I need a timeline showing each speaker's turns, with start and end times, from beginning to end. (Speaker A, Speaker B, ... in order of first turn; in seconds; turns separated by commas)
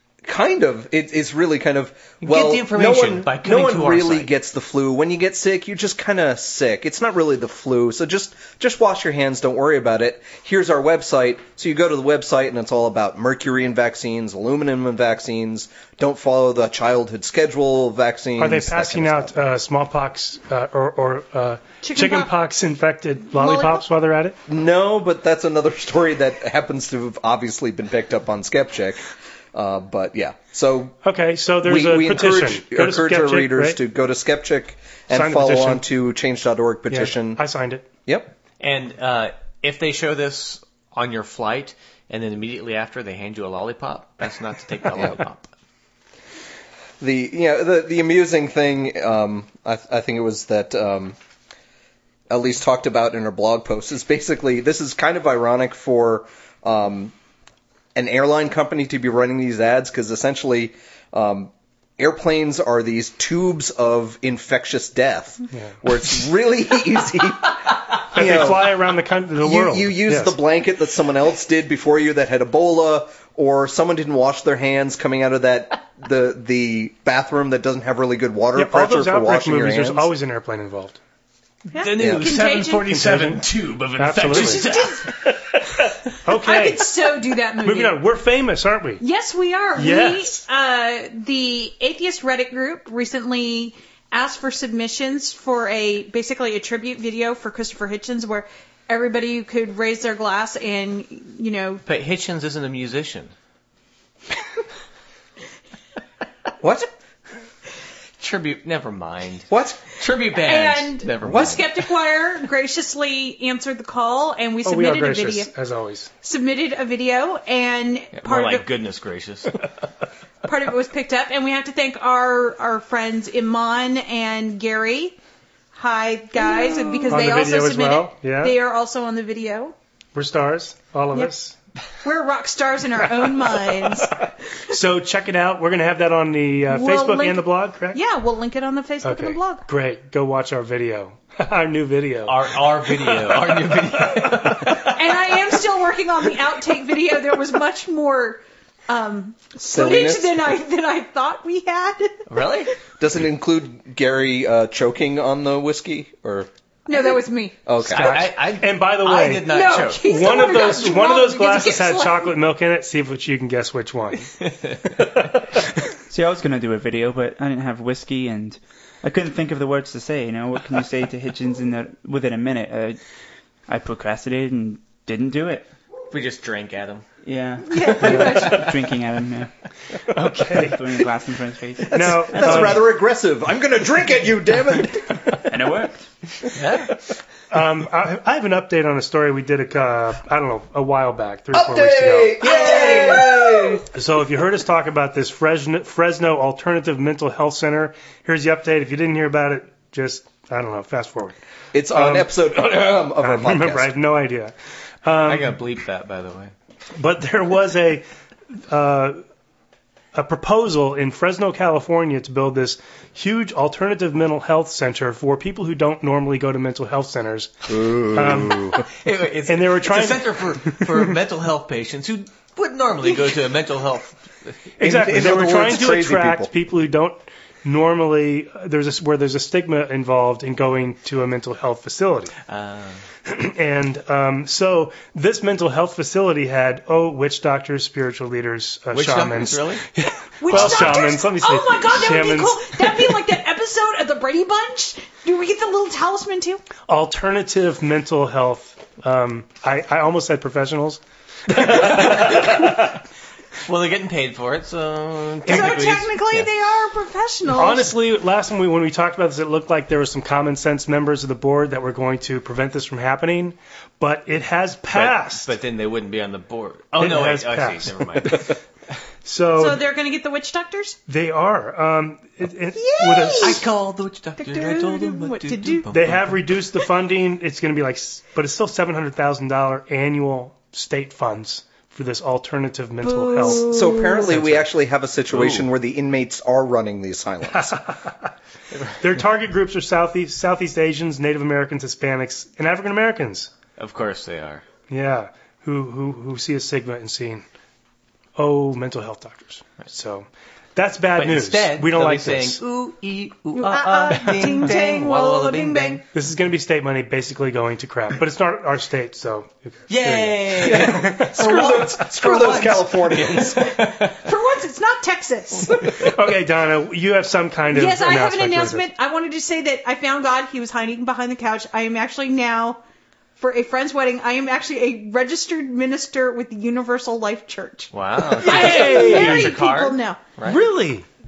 Speaker A: 0.2-19.3, Speaker B: 2.2-4.3, Speaker C: 18.4-24.4, Speaker D: 21.8-22.3, Speaker D: 23.4-23.8, Speaker A: 24.5-31.0, Speaker C: 31.0-33.8, Speaker A: 31.6-37.4, Speaker C: 35.1-35.8, Speaker C: 36.9-37.8, Speaker A: 38.0-38.3, Speaker B: 38.6-45.5, Speaker A: 47.0-51.2, Speaker A: 52.3-57.1, Speaker A: 57.9-68.8, Speaker C: 68.1-70.3, Speaker A: 69.4-80.1, Speaker C: 78.5-81.0, Speaker D: 81.7-82.9, Speaker B: 81.8-85.1, Speaker A: 82.0-82.2, Speaker C: 82.8-83.4, Speaker C: 84.0-86.9, Speaker D: 84.3-85.0, Speaker D: 86.3-88.0, Speaker C: 87.6-89.0, Speaker D: 89.0-101.8, Speaker C: 89.8-90.4, Speaker B: 101.8-103.3, Speaker A: 106.6-106.9, Speaker B: 108.2-111.8, Speaker A: 109.5-109.8, Speaker D: 110.4-115.5, Speaker A: 111.2-111.6, Speaker C: 114.6-116.1, Speaker D: 116.2-118.6, Speaker B: 118.2-119.7, Speaker D: 120.4-125.2, Speaker D: 125.7-129.7, Speaker C: 127.1-128.5, Speaker C: 130.1-131.6, Speaker D: 132.0-134.3, Speaker C: 133.7-134.1, Speaker C: 134.7-138.0, Speaker D: 136.7-139.6, Speaker C: 139.0-142.5, Speaker B: 142.2-144.9, Speaker D: 144.7-152.2, Speaker A: 149.6-150.3, Speaker B: 152.3-152.7, Speaker A: 153.0-156.5, Speaker D: 156.9-157.6, Speaker A: 157.7-158.2, Speaker C: 157.8-164.3, Speaker B: 157.9-160.6, Speaker D: 159.4-162.3, Speaker E: 166.1-173.0, Speaker E: 173.7-175.7, Speaker B: 176.1-177.0, Speaker E: 177.2-179.5, Speaker D: 177.7-178.7, Speaker C: 180.1-180.8, Speaker E: 180.2-182.8, Speaker A: 181.8-185.5, Speaker C: 181.9-182.8, Speaker E: 185.5-186.1, Speaker B: 186.5-186.9, Speaker C: 187.5-192.4, Speaker A: 191.5-193.9, Speaker D: 192.4-193.7, Speaker C: 193.9-201.4, Speaker A: 201.7-203.9, Speaker C: 201.9-202.3, Speaker C: 203.2-205.6, Speaker B: 205.2-206.5, Speaker C: 206.9-208.0, Speaker C: 208.7-209.2, Speaker C: 210.1-218.8, Speaker A: 217.7-218.8, Speaker B: 218.9-224.5, Speaker C: 219.5-220.9, Speaker C: 224.8-232.3, Speaker A: 224.8-226.5, Speaker B: 232.5-233.0, Speaker C: 233.2-242.8, Speaker B: 238.9-239.8, Speaker D: 240.4-246.6, Speaker B: 240.5-241.0, Speaker C: 246.9-252.7, Speaker B: 251.7-252.7, Speaker B: 253.6-256.5, Speaker D: 255.4-257.9, Speaker C: 257.5-265.5, Speaker B: 264.9-268.4, Speaker C: 267.0-268.4, Speaker C: 269.2-269.8, Speaker D: 269.6-271.0, Speaker C: 271.1-273.6, Speaker D: 272.7-273.6, Speaker B: 273.4-276.3, Speaker D: 274.4-275.9, Speaker C: 275.9-283.7, Speaker D: 283.0-284.3, Speaker A: 283.6-287.8, Speaker C: 284.3-284.6, Speaker B: 285.3-285.7, Speaker C: 287.5-288.1, Speaker C: 289.0-293.5, Speaker B: 293.8-294.6, Speaker C: 294.9-297.4, Speaker C: 298.4-302.6, Speaker B: 301.2-306.0, Speaker D: 303.6-306.0, Speaker C: 306.1-311.3, Speaker B: 309.9-314.2, Speaker A: 310.6-313.8, Speaker D: 311.4-312.7, Speaker D: 313.5-316.1, Speaker C: 315.9-318.8, Speaker D: 317.7-322.8, Speaker D: 323.4-330.2, Speaker B: 327.9-330.6, Speaker C: 328.3-329.5, Speaker C: 330.4-331.1